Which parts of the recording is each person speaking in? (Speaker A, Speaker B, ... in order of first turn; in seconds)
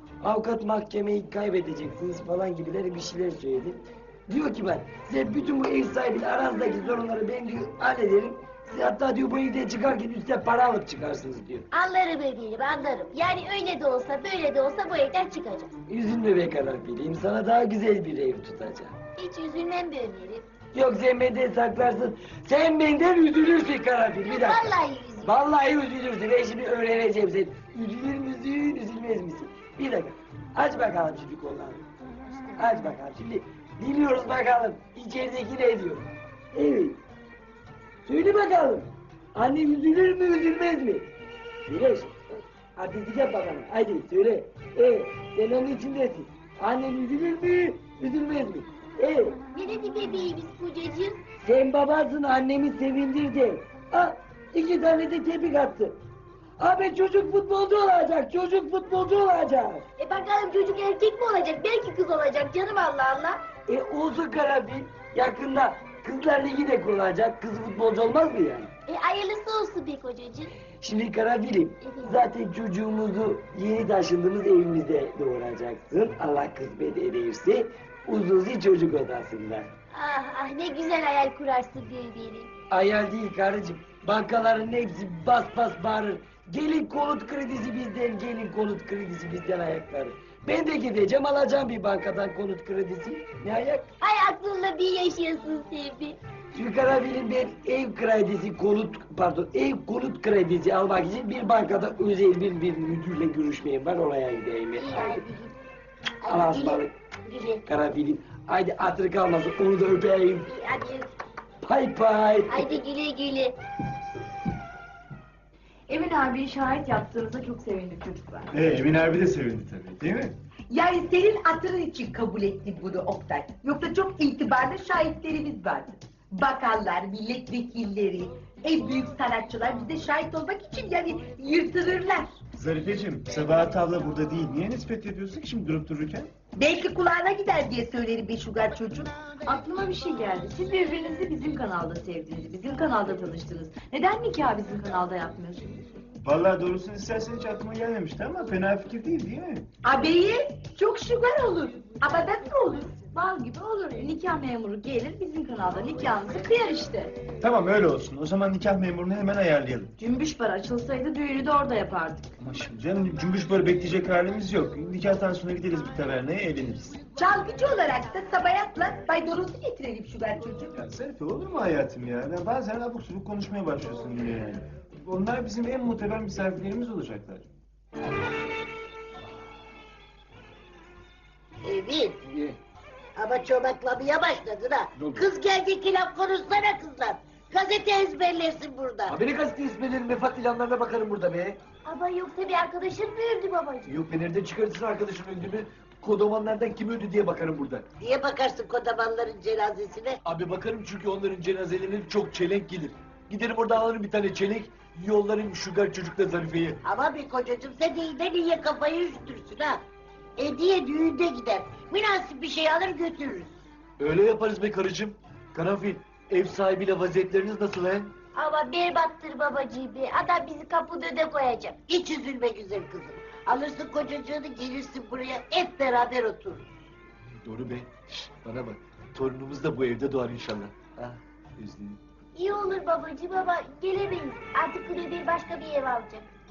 Speaker A: 0.2-11.7, 15.9-19.0, 20.7-24.7, 25.2-31.9, 32.6-37.0, 38.1-41.1, 41.7-49.4, 51.4-56.0, 56.6-59.9, 63.7-68.7, 70.8-79.7, 82.7-93.9, 96.5-105.2, 106.3-106.9, 107.7-110.5, 111.6-112.8
Speaker B: 11.7-15.7, 19.2-20.5, 24.2-25.4, 49.5-51.2, 60.0-63.5, 68.9-70.5, 71.8-72.3, 79.9-82.5, 94.0-96.2, 104.8-105.6, 106.2-107.6, 110.5-111.1, 112.5-113.6, 191.8-194.0, 218.3-221.8, 232.4-236.3
Speaker C: 115.9-118.5, 139.4-146.0, 153.0-157.1, 160.0-162.3
Speaker D: 118.5-120.4, 132.5-136.3, 146.2-149.7, 157.4-159.9, 162.4-167.0, 170.7-177.5
Speaker E: 120.7-132.4, 136.6-139.2, 149.8-153.0, 167.2-170.7
Speaker F: 181.6-182.2, 183.2-189.2, 198.0-200.2, 206.8-209.8, 210.4-213.6, 221.9-226.7
Speaker G: 185.0-185.3, 189.1-191.6, 193.9-197.9, 200.2-206.8, 214.0-218.1, 227.4-232.0